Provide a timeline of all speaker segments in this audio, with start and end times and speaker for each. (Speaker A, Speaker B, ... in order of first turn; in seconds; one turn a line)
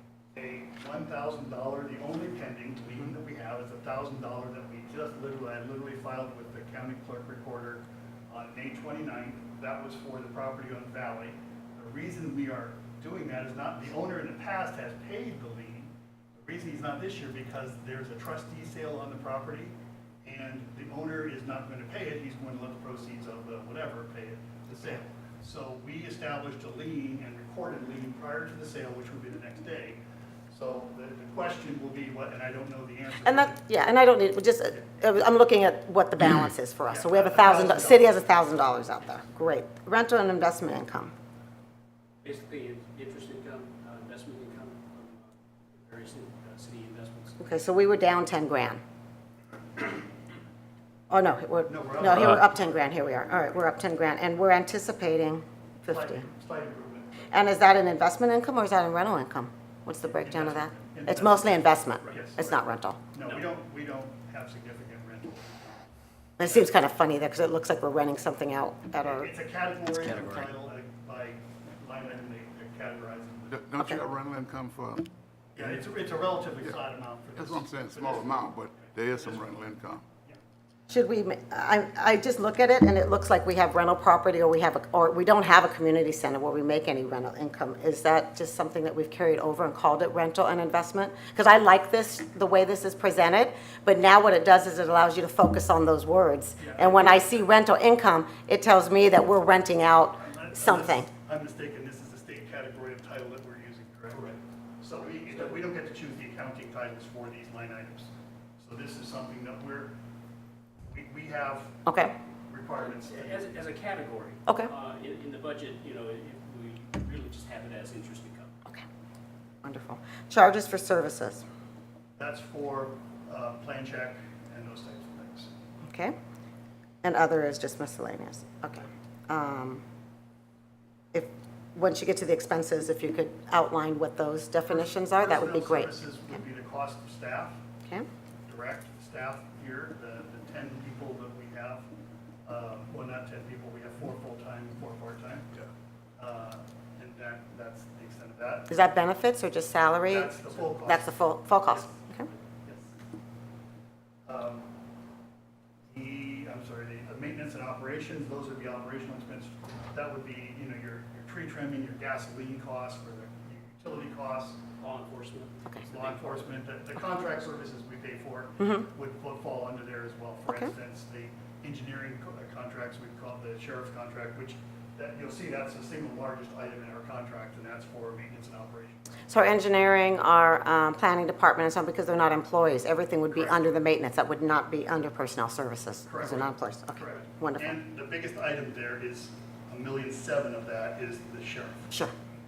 Speaker A: 0.3-33.6
Speaker B: 33.2-41.1
Speaker A: 36.9-38.1
Speaker C: 42.2-47.4
Speaker B: 47.4-48.8
Speaker B: 51.1-56.3
Speaker A: 51.7-52.6
Speaker A: 55.9-57.3
Speaker B: 57.3-63.0
Speaker A: 60.0-62.6
Speaker A: 63.1-65.7
Speaker B: 66.4-69.3
Speaker A: 66.5-66.7
Speaker A: 69.0-73.6
Speaker D: 73.5-75.1
Speaker A: 75.5-79.5
Speaker D: 77.4-80.0
Speaker B: 80.9-101.1
Speaker A: 96.6-97.5
Speaker A: 100.2-109.9
Speaker A: 110.9-111.8
Speaker B: 111.9-112.2
Speaker A: 112.5-113.5
Speaker C: 112.8-118.5
Speaker B: 114.5-114.7
Speaker B: 119.6-121.4
Speaker A: 122.2-125.5
Speaker B: 125.8-126.2
Speaker B: 127.0-129.8
Speaker B: 131.1-136.0
Speaker A: 135.2-137.6
Speaker A: 138.5-141.9
Speaker A: 142.5-145.6
Speaker A: 146.2-148.7
Speaker B: 148.7-152.3
Speaker A: 150.1-151.1
Speaker A: 152.6-152.9
Speaker A: 154.3-154.7
Speaker A: 155.9-164.6
Speaker C: 164.8-166.6
Speaker A: 165.9-179.0
Speaker B: 168.6-168.8
Speaker B: 179.3-187.8
Speaker A: 186.1-191.9